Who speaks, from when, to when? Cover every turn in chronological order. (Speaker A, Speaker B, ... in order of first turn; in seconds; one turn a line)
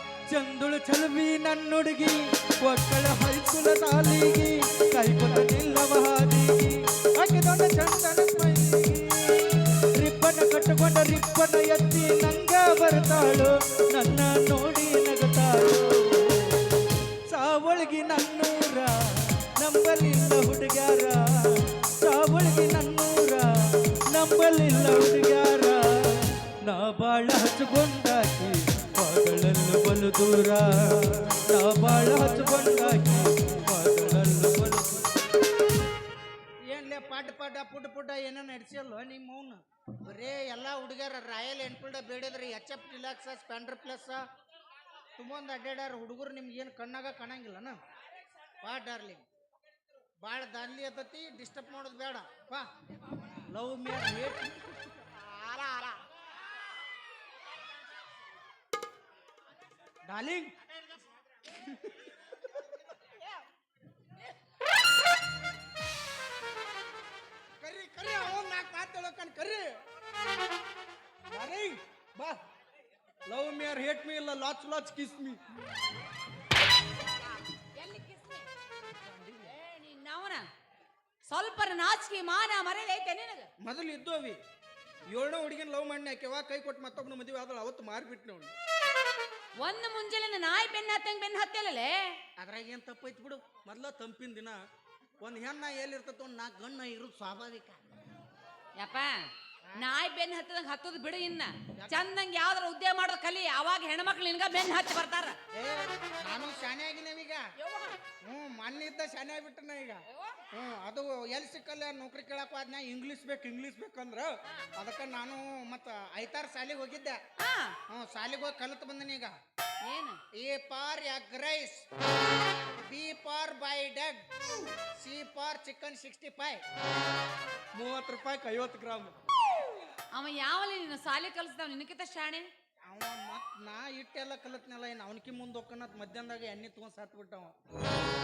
Speaker A: 0.3-6.8
Speaker B: 7.2-8.8
Speaker A: 7.4-16.7
Speaker A: 17.3-35.1
Speaker B: 32.0-33.1
Speaker B: 36.7-44.2
Speaker B: 45.2-47.8
Speaker B: 48.6-49.2
Speaker B: 50.2-52.6
Speaker B: 53.5-55.8
Speaker B: 60.1-60.5
Speaker B: 61.5-62.0
Speaker B: 67.6-69.8
Speaker B: 71.3-72.4
Speaker B: 73.3-75.4
Speaker C: 77.0-78.5
Speaker B: 79.0-79.5
Speaker C: 79.4-80.4
Speaker C: 81.2-83.5
Speaker B: 83.6-84.4
Speaker B: 85.1-88.5
Speaker C: 89.6-92.2
Speaker B: 92.4-94.6
Speaker B: 95.2-97.8
Speaker C: 98.8-105.4
Speaker B: 105.5-107.4
Speaker C: 107.6-108.0
Speaker B: 108.2-117.2
Speaker C: 110.1-110.4
Speaker C: 117.4-117.8
Speaker B: 117.9-119.3
Speaker C: 119.8-120.2
Speaker B: 120.3-121.8
Speaker B: 122.8-124.2
Speaker B: 125.0-126.6
Speaker B: 127.7-129.1
Speaker C: 130.1-132.5
Speaker B: 132.9-137.5